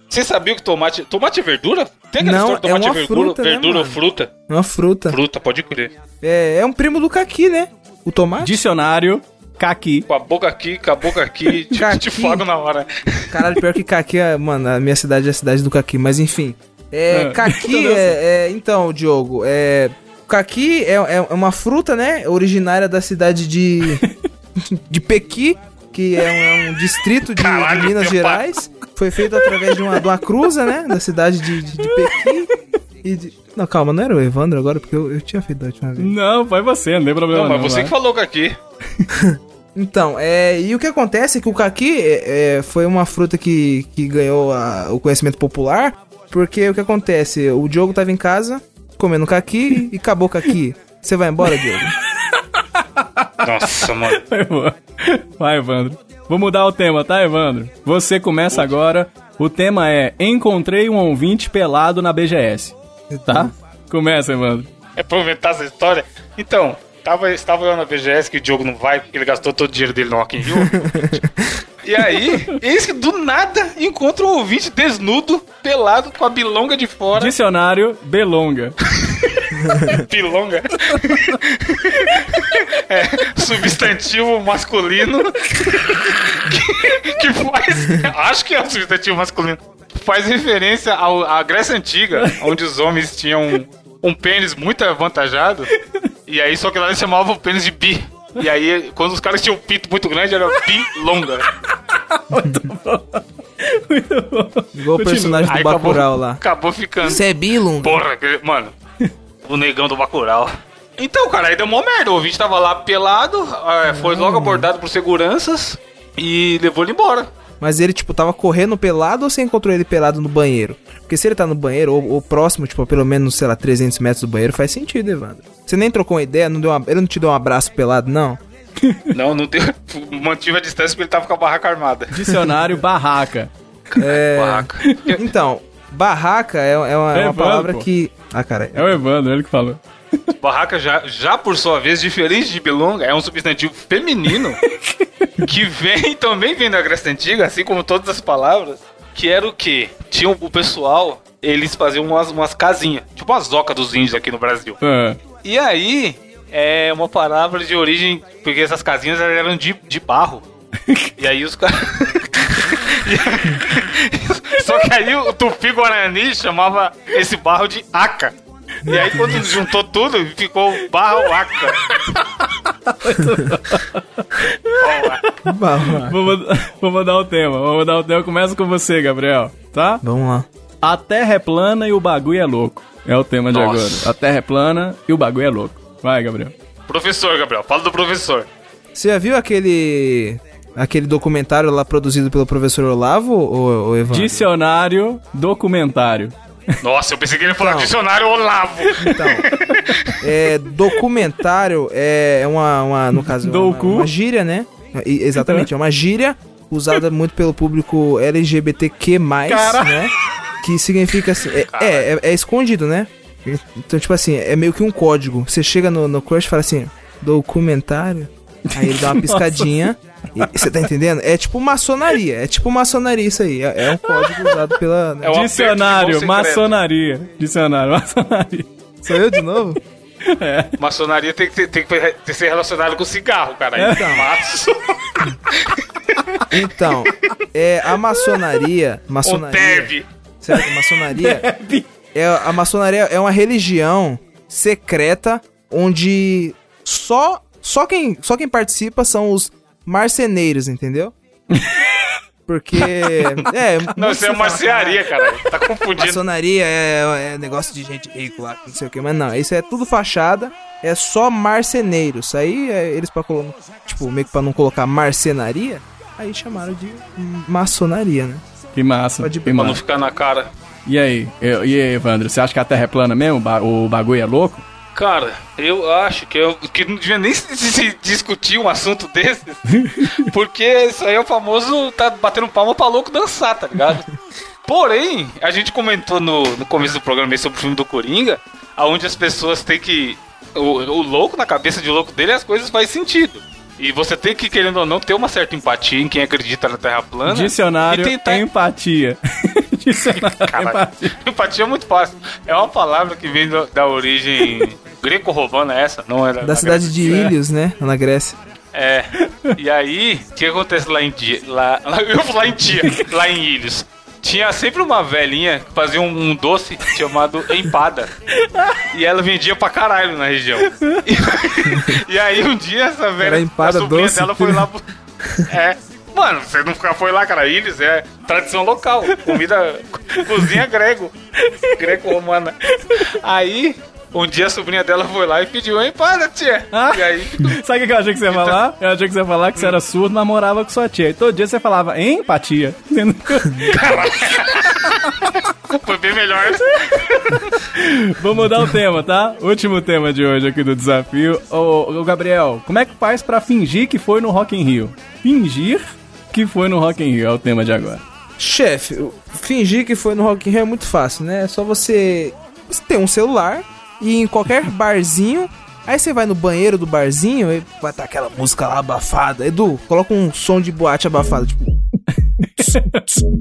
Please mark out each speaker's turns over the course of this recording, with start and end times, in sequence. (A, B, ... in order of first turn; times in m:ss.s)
0:00.1-0:04.3 A
0:02.2-0:05.2 B
0:05.1-0:05.9 A
0:06.2-0:08.6 B
0:08.4-0:10.1 C
0:10.1-0:13.4 A
0:11.7-0:12.4 B
0:13.3-0:24.0 B
0:17.1-0:18.2 C
0:24.6-0:32.5 B
0:27.4-0:28.4 A
0:31.8-0:32.1 C
0:33.0-0:36.1 B
0:36.0-0:37.9 C
0:37.3-0:38.6 A
0:39.2-0:51.9 B
0:52.3-0:53.6 C
0:53.4-0:54.2 A
0:54.1-1:02.8 C
1:03.1-1:03.5 B
1:03.3-1:04.7 C
1:05.0-1:11.2 A
1:10.6-1:11.6 B
1:11.8-1:17.3 A
1:17.2-1:18.8 C
1:19.0-1:35.7 A
1:36.3-1:41.5 A
1:41.7-1:45.6 C
1:44.8-1:46.4 B
1:45.5-1:47.2 A
1:47.0-1:48.0 B
1:47.8-1:48.7 A
1:49.4-1:57.3 A
1:53.9-1:54.7 B
1:57.6-2:08.4 B
2:08.8-2:09.1 C
2:09.1-2:12.3 A
2:12.1-2:13.5 C
2:13.9-2:15.2 A
2:14.0-2:18.9 B
2:17.1-2:17.9 C
2:18.8-2:20.3 C
2:20.4-2:24.6 A
2:24.7-2:25.4 C
2:25.4-2:34.8 A
2:34.8-2:35.2 C
2:35.4-2:40.5 A
2:41.2-2:48.4 A
2:48.9-2:51.8 A
2:48.9-2:49.3 C
2:51.9-3:00.0 C
2:54.8-2:55.2 A
2:55.4-2:56.2 B
3:00.0-3:00.5 B
3:00.8-3:06.5 C
3:03.5-3:04.1 A
3:06.9-3:08.5 A
3:08.9-3:14.5 B
3:14.1-3:16.4 C
3:16.8-3:20.1 A
3:17.5-3:17.9 B
3:19.0-3:19.5 B
3:19.0-3:20.2 C
3:20.2-3:45.4 B
3:23.1-3:24.1 C
3:25.4-3:25.7 C
3:29.5-3:30.0 C
3:31.7-3:32.1 A
3:38.7-3:39.8 C
3:44.0-3:44.6 C
3:45.2-3:46.7 A
3:45.3-3:48.7 C
3:49.0-3:49.8 B
3:50.3-3:50.7 C
3:50.8-3:56.1 A
3:53.8-3:54.0 C
3:53.9-3:54.3 B
3:56.5-4:01.5 B
3:59.2-4:00.1 A
4:01.1-4:01.9 C
4:02.1-4:11.1 B
4:11.5-4:12.1 C
4:12.5-4:15.1 B
4:13.1-4:13.4 C
4:14.0-4:16.2 A
4:16.0-4:28.4 B
4:28.8-4:29.8 C
4:29.2-4:29.8 B
4:29.5-4:30.5 A
4:30.9-4:34.7 C
4:35.0-4:44.1 A
4:39.7-4:40.2 C
4:44.7-4:58.4 A
4:57.3-5:01.1 C
5:00.1-5:07.3 A
5:06.4-5:08.4 B
5:08.7-5:18.1 A
5:12.8-5:13.1 C
5:18.3-5:18.8 C
5:18.9-5:24.8 A
5:21.7-5:22.0 B
5:23.2-5:24.7 B
5:25.2-5:25.5 B
5:25.5-5:31.1 A
5:29.1-5:29.4 C
5:30.2-5:30.5 C
5:31.7-5:37.6 A
5:32.8-5:33.1 C
5:36.7-5:43.9 C
5:38.3-5:38.6 A
5:43.7-5:47.6 A
5:47.0-5:58.0 C
5:58.4-6:11.7 B
6:12.3-6:13.2 C